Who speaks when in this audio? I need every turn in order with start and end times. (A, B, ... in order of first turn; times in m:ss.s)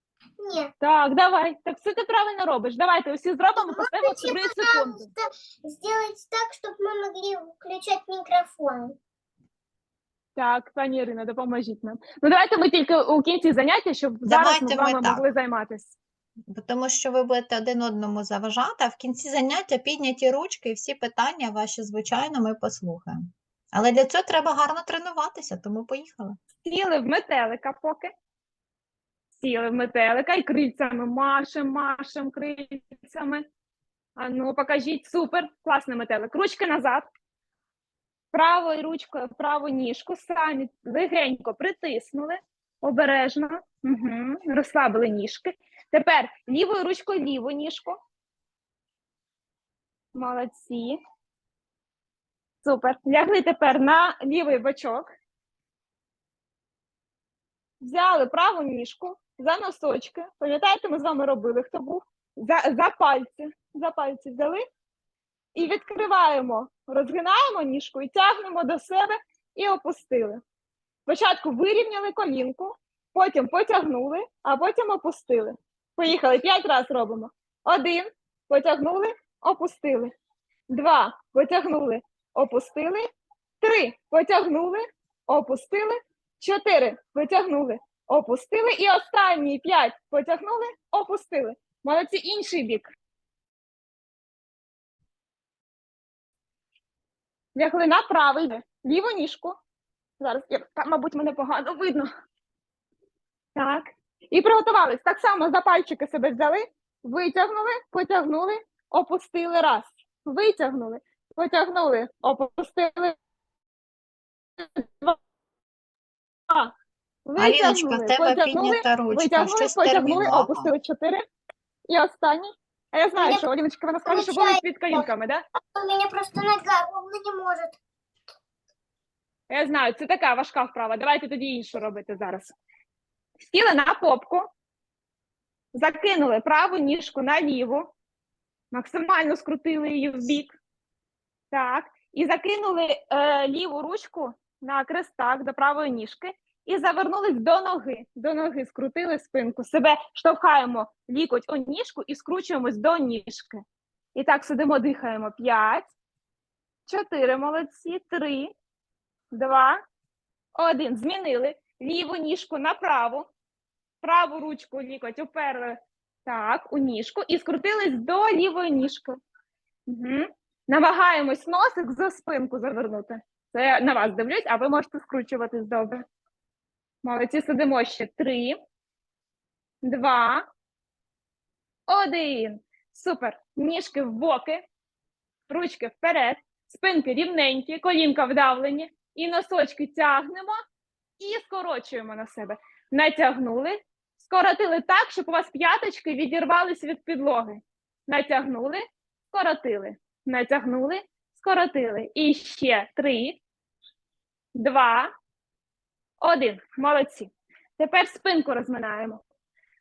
0:00.4-0:00.7 A
0:00.8-0:05.1 B
0:03.7-0:09.0 A
0:10.4-0:15.9 B
0:14.2-0:15.2 C
0:16.5-0:26.4 C
0:26.6-0:28.1 B
0:29.3-0:33.4 B
0:34.2-0:37.1 B
0:38.3-0:48.0 B
0:50.1-0:51.0 B
0:52.6-0:55.1 B
0:57.8-1:04.6 B
1:05.5-1:10.4 B
1:11.1-1:20.1 B
1:20.7-1:23.1 B
1:23.6-1:32.9 B
1:37.6-1:39.6 B
1:40.2-1:42.1 B
1:43.5-1:53.2 B
1:54.6-1:55.2 B
1:57.2-2:01.2 B
1:57.4-2:00.7 C
2:01.9-2:05.4 B
2:04.0-2:05.1 A
2:05.7-2:07.8 A
2:09.5-2:12.5 B
2:13.5-2:14.5 B
2:15.7-2:17.9 B
2:18.7-2:20.5 B
2:21.5-2:33.6 B
2:34.1-2:35.9 B
2:36.9-2:38.5 B
2:39.3-2:39.8 B
2:40.5-2:43.3 B
2:44.0-2:49.2 B
2:49.9-2:56.0 B
2:57.0-2:58.6 B
2:59.8-3:00.5 B
3:01.9-3:04.6 B
3:05.5-3:10.6 B
3:11.2-3:23.4 B
3:24.5-3:25.1 B
3:26.2-3:29.2 B